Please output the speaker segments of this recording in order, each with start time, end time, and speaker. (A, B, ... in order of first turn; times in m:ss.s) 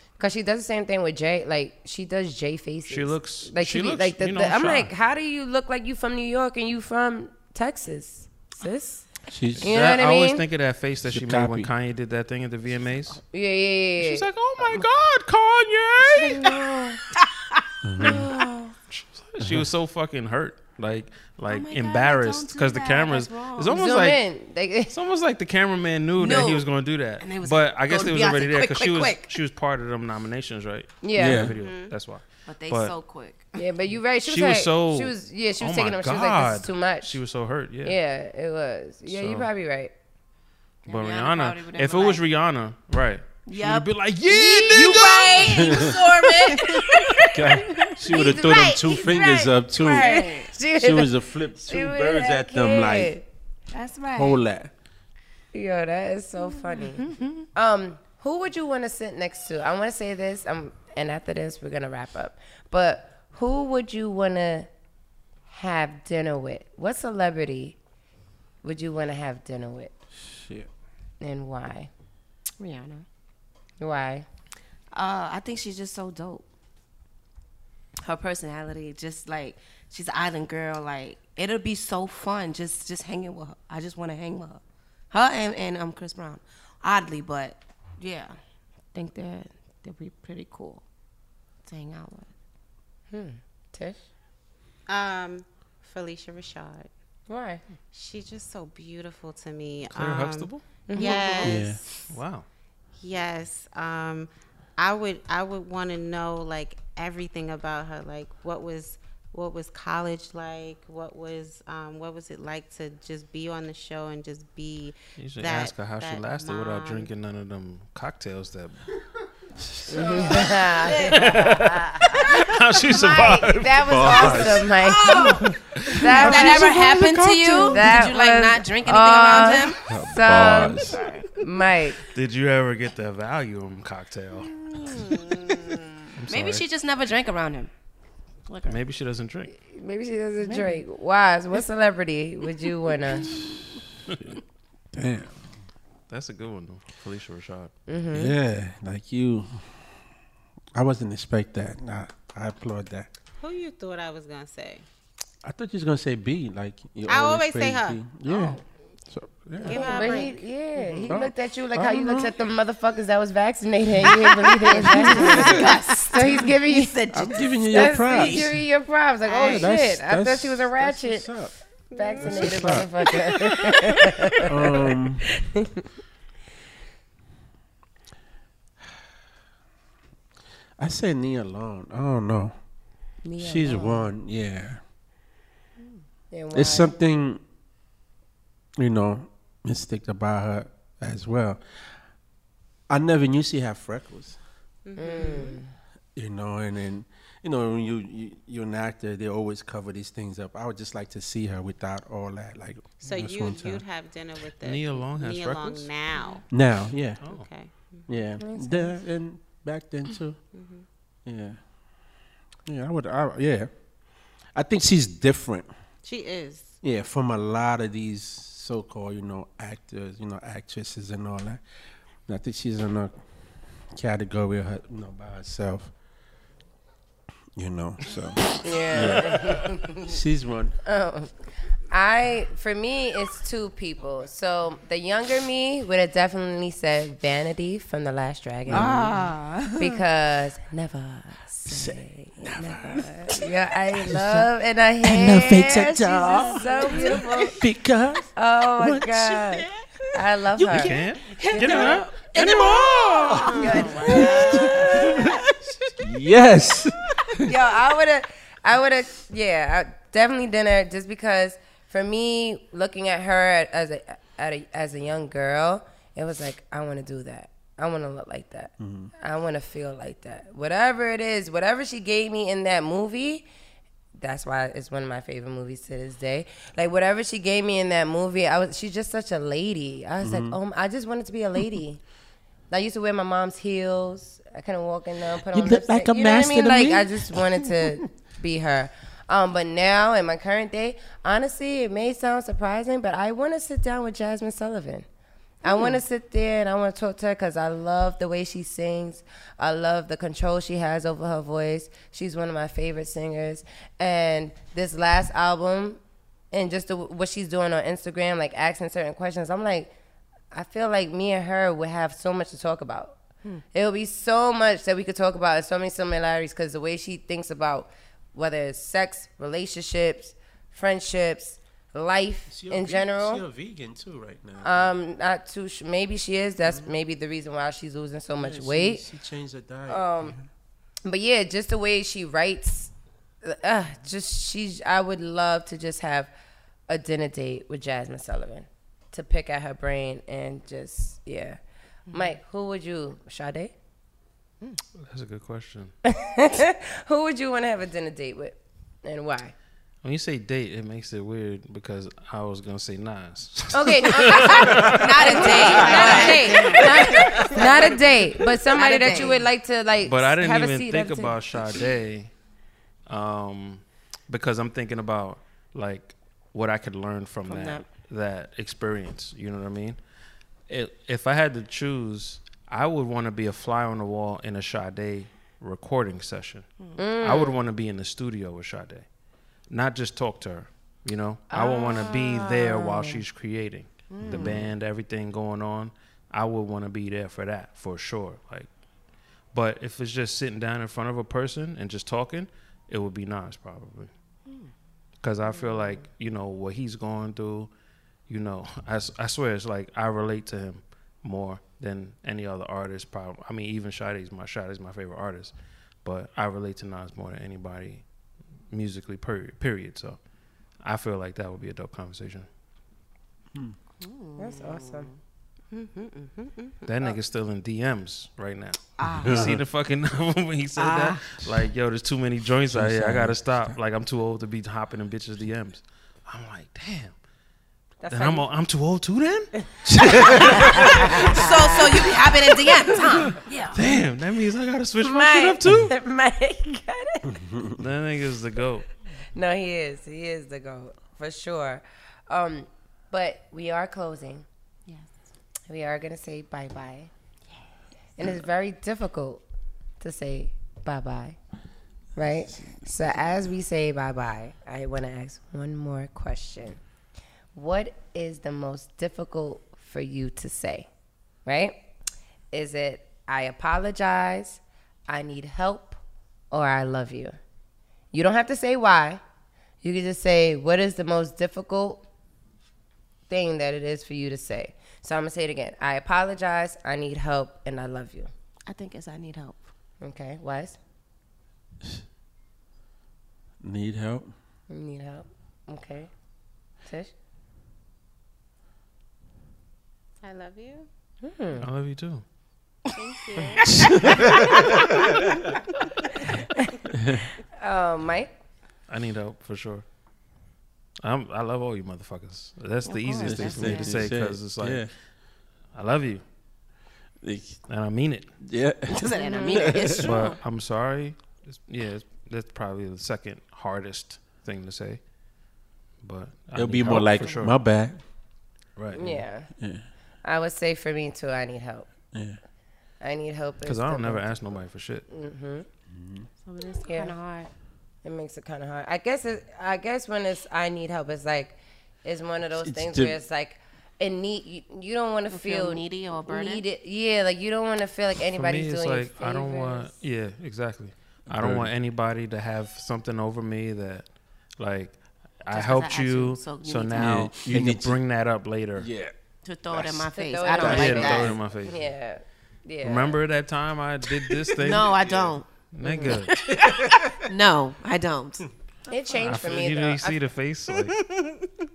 0:00.2-0:09.1 A
0:02.9-0:04.9 B
0:09.3-0:09.8 C
0:09.6-0:13.2 B
0:09.6-0:10.4 A
0:11.1-0:11.7 C
0:13.3-0:14.3 A
0:14.0-0:16.6 B
0:16.0-0:17.0 A
0:17.1-0:18.8 D
0:17.8-0:18.3 C
0:18.0-0:18.3 B
0:18.9-0:24.2 B
0:19.4-0:19.7 C
0:21.4-0:23.8 D
0:23.7-0:24.9 A
0:24.9-0:32.9 B
0:26.2-0:26.7 D
0:27.2-0:29.4 D
0:31.0-0:31.5 A
0:31.2-0:31.6 C
0:31.6-0:31.9 E
0:32.5-0:33.7 D
0:33.6-0:37.2 A
0:34.2-0:38.0 B
0:37.8-0:39.9 A
0:39.1-0:39.5 B
0:40.9-0:42.2 D
0:40.9-0:45.4 B
0:43.5-0:47.3 D
0:44.7-0:53.2 A
0:45.3-0:46.0 C
0:47.3-0:53.2 C
0:49.8-0:50.5 D
0:53.7-0:54.4 D
0:54.1-0:54.7 C
0:55.5-1:04.7 A
0:56.7-0:57.5 D
1:05.5-1:07.8 A
1:08.6-1:09.9 A
1:10.2-1:10.7 C
1:11.2-1:11.9 A
1:12.6-1:13.0 D
1:13.8-1:14.3 A
1:14.9-1:16.5 D
1:18.0-1:28.4 D
1:28.9-1:30.8 D
1:31.6-1:32.3 D
1:33.1-1:34.0 A
1:34.9-1:36.9 E
1:37.3-1:37.6 A
1:37.9-1:42.2 E
1:39.9-1:40.6 B
1:40.9-1:41.6 A
1:41.0-1:41.6 D
1:41.4-1:41.8 C
1:42.1-1:42.5 B
1:43.0-1:57.1 E
1:55.2-1:58.8 B
1:59.6-2:00.6 C
1:59.9-2:02.2 A
2:00.2-2:00.4 E
2:01.0-2:03.8 B
2:01.0-2:01.3 D
2:02.8-2:07.0 A
2:03.8-2:05.5 C
2:05.0-2:05.4 D
2:05.4-2:06.6 B
2:06.0-2:08.0 C
2:06.1-2:09.9 D
2:07.5-2:12.0 A
2:09.8-2:11.0 C
2:10.9-2:11.3 D
2:12.1-2:14.6 B
2:14.5-2:15.2 D
2:14.9-2:16.1 E
2:16.2-2:16.6 B
2:16.3-2:17.7 D
2:18.5-2:18.8 D
2:18.6-2:19.5 B
2:19.5-2:23.3 A
2:20.4-2:20.8 D
2:22.6-2:23.4 D
2:23.4-2:23.8 C
2:24.9-2:25.4 C
2:26.1-2:27.7 B
2:27.9-2:28.4 A
2:28.1-2:29.9 C
2:30.8-2:33.1 C
2:33.4-2:34.9 E
2:35.4-2:39.8 C
2:37.1-2:38.0 E
2:38.2-2:38.6 D
2:39.6-2:40.4 D
2:39.6-2:40.4 E
2:39.7-2:51.3 A
2:41.1-2:42.3 C
2:44.2-2:48.5 D
2:45.4-2:45.7 C
2:47.1-2:48.6 C
2:49.2-2:49.7 E
2:49.4-2:51.5 C
2:51.9-2:52.9 E
2:51.9-2:54.8 A
2:52.2-2:52.9 C
2:54.4-2:55.2 C
2:55.3-2:55.8 A
3:00.8-3:02.6 C
3:03.2-3:04.1 A
3:03.4-3:04.8 C
3:06.3-3:07.0 A
3:06.5-3:07.4 C
3:08.8-3:12.0 C
3:12.9-3:14.4 C
3:14.8-3:15.6 E
3:15.0-3:15.7 A
3:16.2-3:23.8 C
3:23.0-3:26.4 E
3:24.6-3:25.9 B
3:26.2-3:26.4 D
3:26.5-3:27.2 C
3:27.2-3:27.5 B
3:27.2-3:28.1 E
3:28.1-3:30.4 C
3:28.4-3:29.0 A
3:30.5-3:30.9 E
3:31.3-3:31.6 C
3:32.7-3:33.7 C
3:34.6-3:35.7 C
3:36.0-3:36.8 E
3:36.8-3:41.6 C
3:42.3-3:43.2 C
3:43.9-3:45.9 C
3:47.6-3:50.8 C
3:48.6-3:50.2 A
3:50.8-3:51.3 A
3:51.9-3:59.0 A
3:58.7-3:59.3 C
3:58.7-4:00.0 D
3:59.8-4:07.6 A
4:01.7-4:04.5 C
4:05.0-4:15.4 C
4:05.4-4:07.4 D
4:08.4-4:11.0 A
4:10.7-4:12.8 B
4:11.5-4:14.5 D
4:13.5-4:15.3 A
4:13.7-4:14.7 E
4:15.1-4:15.4 D
4:16.0-4:17.6 C
4:17.4-4:33.5 A
4:28.8-4:29.1 C
4:34.2-4:42.0 A
4:40.2-4:40.6 C
4:42.7-4:55.1 A
4:45.3-4:48.0 C
4:55.6-5:06.0 A
4:55.7-4:56.0 D
5:06.5-5:09.9 A
5:10.5-5:13.2 A
5:13.7-5:23.4 A
5:22.5-5:24.9 C
5:24.6-5:29.1 A
5:26.7-5:27.0 C
5:28.4-5:30.5 C
5:29.9-5:30.4 A
5:31.0-5:32.9 A
5:33.4-5:36.3 A
5:36.9-5:41.6 A
5:42.1-5:43.7 A
5:45.0-5:45.9 B
5:46.0-5:49.5 A
5:50.0-5:56.3 B
5:53.7-6:01.6 A
5:54.5-5:57.9 D
5:55.3-5:56.9 E
5:55.7-5:56.5 C
5:57.0-5:58.0 C
5:58.7-5:59.5 D
6:00.0-6:02.3 B
6:03.1-6:10.0 B
6:07.5-6:07.8 D
6:10.7-6:16.7 B
6:17.0-6:17.6 A
6:17.2-6:19.0 B
6:19.7-6:28.7 B
6:21.5-6:23.2 A
6:24.1-6:24.6 D
6:24.2-6:24.7 C
6:29.5-6:34.1 B
6:34.5-6:34.7 D
6:35.2-6:37.7 B
6:38.3-6:45.5 B
6:46.0-6:48.0 B
6:48.7-6:50.2 B
6:50.8-6:52.5 B
6:54.0-6:55.2 D
6:54.4-6:55.1 A
6:55.7-6:57.2 E
6:56.9-7:07.1 B
6:59.0-6:59.6 D
6:59.1-6:59.6 C
7:00.8-7:01.4 D
7:02.7-7:03.8 C
7:08.0-7:08.5 A
7:08.1-7:09.5 B
7:09.9-7:10.9 C
7:09.9-7:12.1 A
7:10.3-7:11.4 B
7:10.6-7:13.8 D
7:13.7-7:16.0 B
7:15.0-7:17.4 A
7:17.3-7:17.8 C
7:17.8-7:18.9 B
7:19.3-7:24.4 A
7:25.7-7:27.1 A
7:28.2-7:29.4 A
7:30.0-7:31.4 A
7:32.2-7:36.8 A
7:37.5-7:40.9 A
7:41.5-7:41.8 A
7:42.5-7:46.0 A
7:46.5-7:47.4 A
7:48.1-7:49.2 A
7:49.8-7:52.1 A
7:53.3-7:58.3 A
7:58.7-7:59.7 D
8:00.0-8:00.8 A
8:03.6-8:04.3 C
8:04.7-8:06.1 A
8:06.8-8:07.1 A
8:10.2-8:10.9 E
8:11.2-8:11.7 A
8:11.6-8:12.2 B
8:12.9-8:13.8 E
8:13.6-8:14.4 D
8:13.8-8:15.4 C
8:16.3-8:16.7 A
8:16.9-8:17.2 C
8:17.6-8:18.3 A
8:18.9-8:19.8 B
8:21.0-8:24.9 B
8:22.8-8:24.1 D
8:23.2-8:24.9 C
8:25.7-8:26.2 B
8:27.2-8:27.6 C
8:27.7-8:28.3 B
8:28.4-8:30.2 C
8:28.9-8:30.4 D
8:29.2-8:29.7 A
8:30.0-8:35.0 B
8:36.0-8:37.6 B
8:36.6-8:38.0 C
8:38.8-8:39.2 B
8:39.0-8:39.5 A
8:39.6-8:39.8 C
8:40.2-8:41.9 A
8:43.0-8:44.6 A
8:43.6-8:45.1 B
8:45.1-8:45.7 A
8:45.9-8:46.3 C
8:46.4-8:47.5 D
8:46.8-8:47.2 A
8:48.0-8:59.9 A
8:52.6-8:53.2 C
8:55.3-8:56.7 D
8:58.3-9:04.0 B
9:01.3-9:01.7 C
9:04.6-9:08.9 B
9:05.5-9:07.3 D
9:07.0-9:08.0 C
9:08.8-9:09.1 C
9:09.4-9:11.4 D
9:09.7-9:10.1 C
9:10.1-9:13.2 A
9:10.6-9:11.8 B
9:10.6-9:11.1 C
9:12.8-9:14.9 B
9:14.6-9:15.5 D
9:14.7-9:15.4 C
9:15.7-9:16.4 B
9:15.8-9:16.2 A
9:16.0-9:18.5 D
9:16.5-9:17.2 C
9:18.9-9:20.2 A
9:19.1-9:21.1 B
9:20.7-9:21.5 E